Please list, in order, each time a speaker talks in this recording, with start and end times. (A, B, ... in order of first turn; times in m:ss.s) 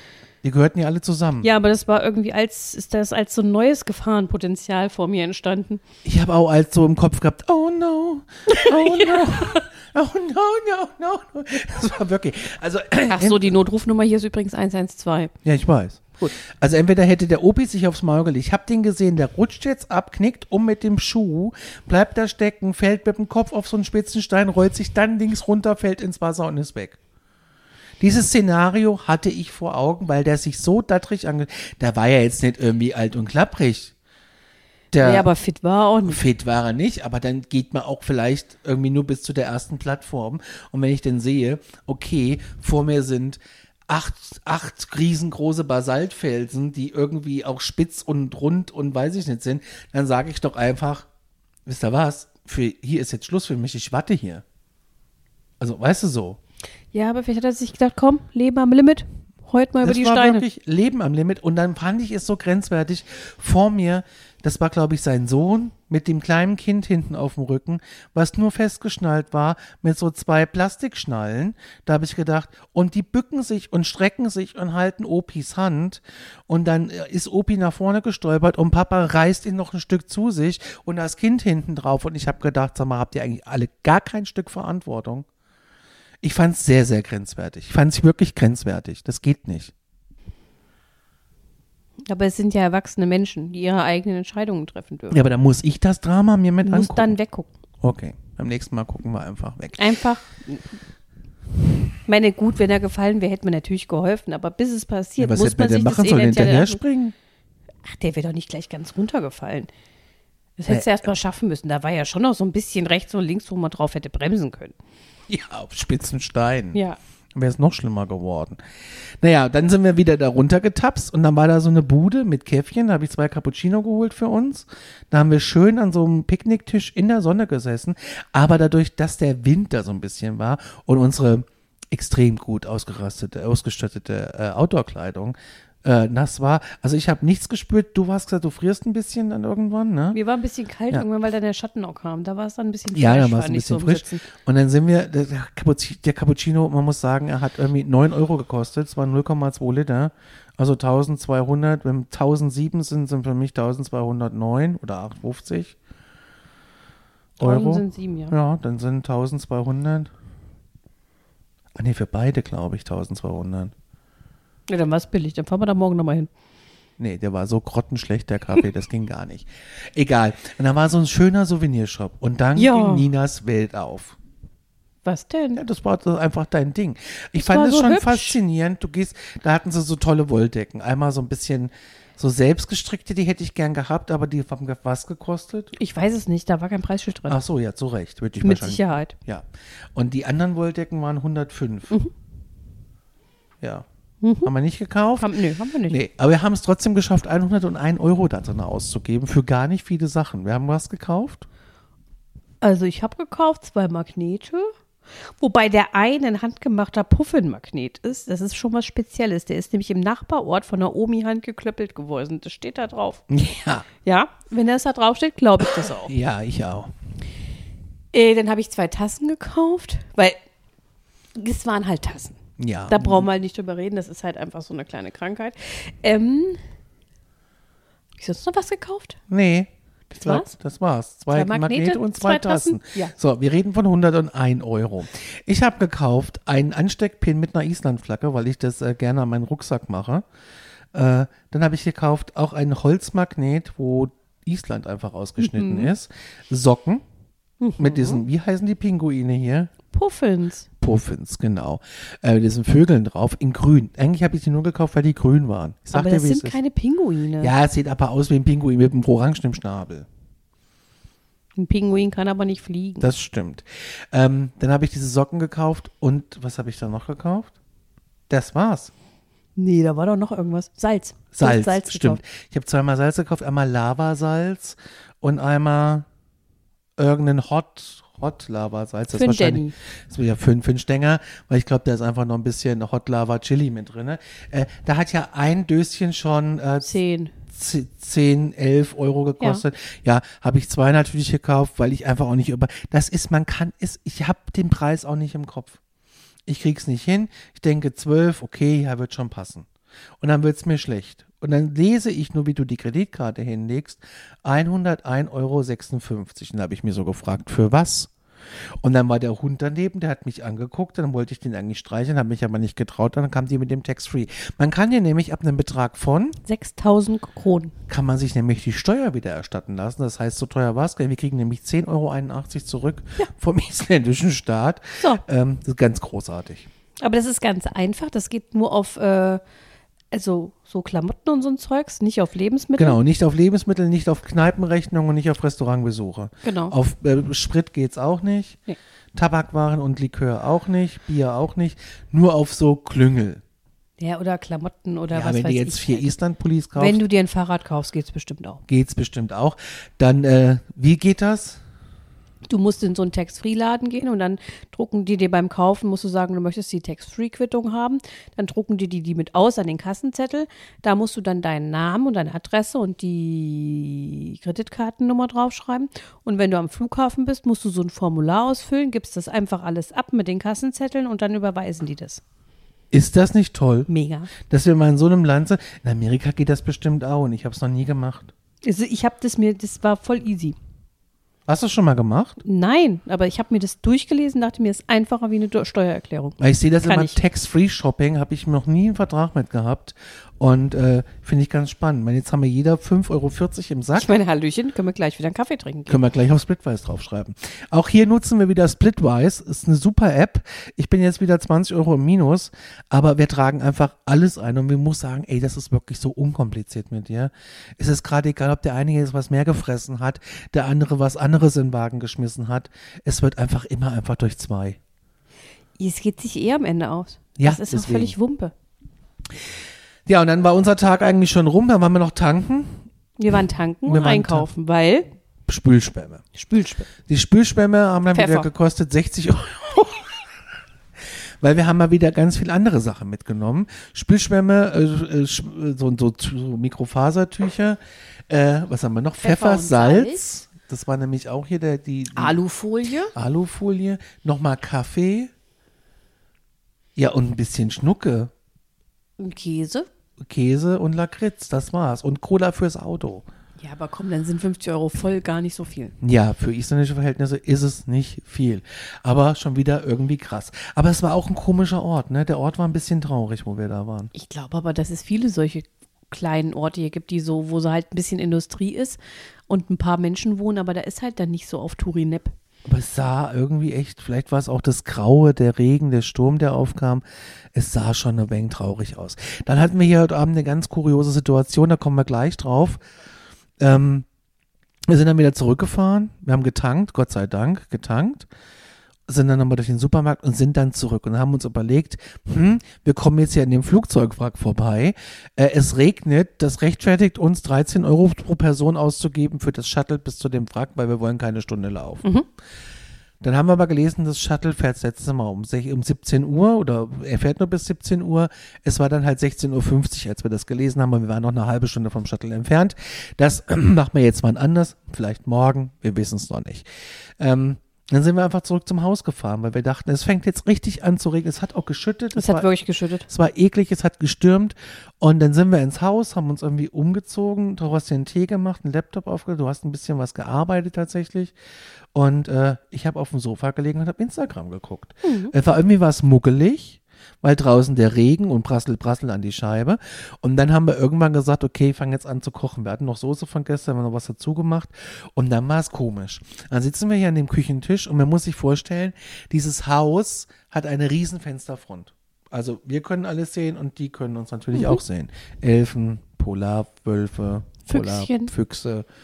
0:00.4-0:01.5 A
0:01.4-0:05.8 B
0:06.0-0:13.5 A
0:08.5-0:09.6 B
0:13.1-0:15.3 B
0:15.4-0:27.0 A
0:28.0-0:33.9 A
0:34.9-0:35.3 A
0:35.0-0:36.2 B
0:36.1-0:51.1 A
0:51.7-0:54.4 A
0:55.6-0:56.4 A
0:56.9-1:00.4 B
0:59.8-1:25.3 A
1:26.2-1:29.7 A
1:32.1-1:35.2 B
1:35.1-1:37.1 A
1:36.6-1:37.5 B
1:37.8-1:39.9 A
1:39.8-1:40.6 B
1:42.1-1:46.8 B
1:45.2-1:47.1 A
1:47.8-1:49.7 B
1:50.6-1:54.8 B
1:55.3-1:56.8 A
1:56.7-1:57.0 B
1:57.4-1:58.6 A
1:59.2-2:20.2 A
2:20.1-2:24.2 B
2:22.9-2:35.8 A
2:37.4-2:38.3 B
2:37.4-2:40.1 A
2:41.8-2:43.7 A
2:44.7-2:46.3 B
2:47.0-2:54.2 A
2:52.6-2:53.1 B
2:55.0-2:55.6 B
2:55.6-3:05.8 A
2:57.4-2:58.4 B
3:05.8-3:07.4 B
3:07.3-3:12.0 A
3:08.4-3:09.2 B
3:14.2-3:14.5 B
3:14.4-3:15.3 A
3:15.2-3:16.0 B
3:15.9-3:21.5 A
3:22.6-3:33.2 B
3:33.3-3:33.9 A
3:34.0-3:36.1 B
3:35.6-3:36.9 A
3:38.1-3:40.4 B
3:41.4-3:42.4 B
3:42.6-3:43.3 A
3:42.9-3:46.6 B
3:48.2-3:49.2 B
3:49.3-4:00.2 A
3:50.1-3:50.5 B
3:51.3-3:53.1 B
4:00.9-4:07.0 A
4:05.4-4:05.9 B
4:07.6-4:08.2 B
4:07.8-4:09.7 A
4:09.9-4:10.7 B
4:10.8-4:16.6 A
4:15.9-4:17.5 B
4:17.4-4:20.1 A
4:21.6-4:23.1 B
4:23.0-4:27.5 A
4:28.3-4:28.9 A
4:29.6-4:32.2 B
4:31.3-4:36.1 A
4:37.0-4:47.0 A
4:39.1-4:39.8 B
4:46.8-4:47.3 B
4:47.5-4:55.8 A
4:56.5-4:59.7 A
5:00.2-5:08.1 A
5:08.8-5:16.4 A
5:16.4-5:17.7 B
5:17.9-5:26.7 A
5:27.0-5:29.4 B
5:30.1-5:33.0 B
5:32.8-5:38.6 A
5:36.4-5:36.8 B
5:39.2-5:43.4 A
5:44.0-5:46.1 B
5:45.1-5:47.0 A
5:46.8-5:48.6 B
5:48.7-5:51.6 A
5:52.5-6:12.2 B
6:12.9-6:13.9 A
6:13.9-6:14.3 B
6:14.5-6:18.3 A
6:18.6-6:20.6 B
6:21.5-6:22.4 A
6:22.4-6:27.2 B
6:26.4-6:34.1 A
6:34.0-6:36.0 B
6:35.9-6:54.8 A
6:55.8-6:58.5 B
6:57.4-6:58.2 A
7:00.1-7:02.9 A
7:03.2-7:05.1 B
7:03.9-7:04.5 A
7:05.5-7:06.2 A
7:06.3-7:06.9 B
7:07.1-7:10.1 A
7:08.1-7:08.5 B
7:11.4-7:22.4 A
7:19.2-7:20.2 B
7:22.2-7:23.1 B
7:23.1-7:25.3 A
7:27.0-7:28.3 A
7:29.2-7:29.9 B
7:30.2-7:33.2 A
7:33.6-7:35.9 B
7:36.0-7:44.1 A
7:44.1-7:52.3 B
7:52.7-8:02.8 A
8:03.6-8:04.1 A
8:04.9-8:08.3 A
8:09.1-8:22.1 A
8:23.2-8:36.7 A
8:37.2-8:42.5 A
8:42.2-8:43.1 B
8:43.1-8:51.4 A
8:51.9-9:18.9 A
8:55.0-8:55.3 B
9:14.5-9:14.8 B
9:17.7-9:18.3 B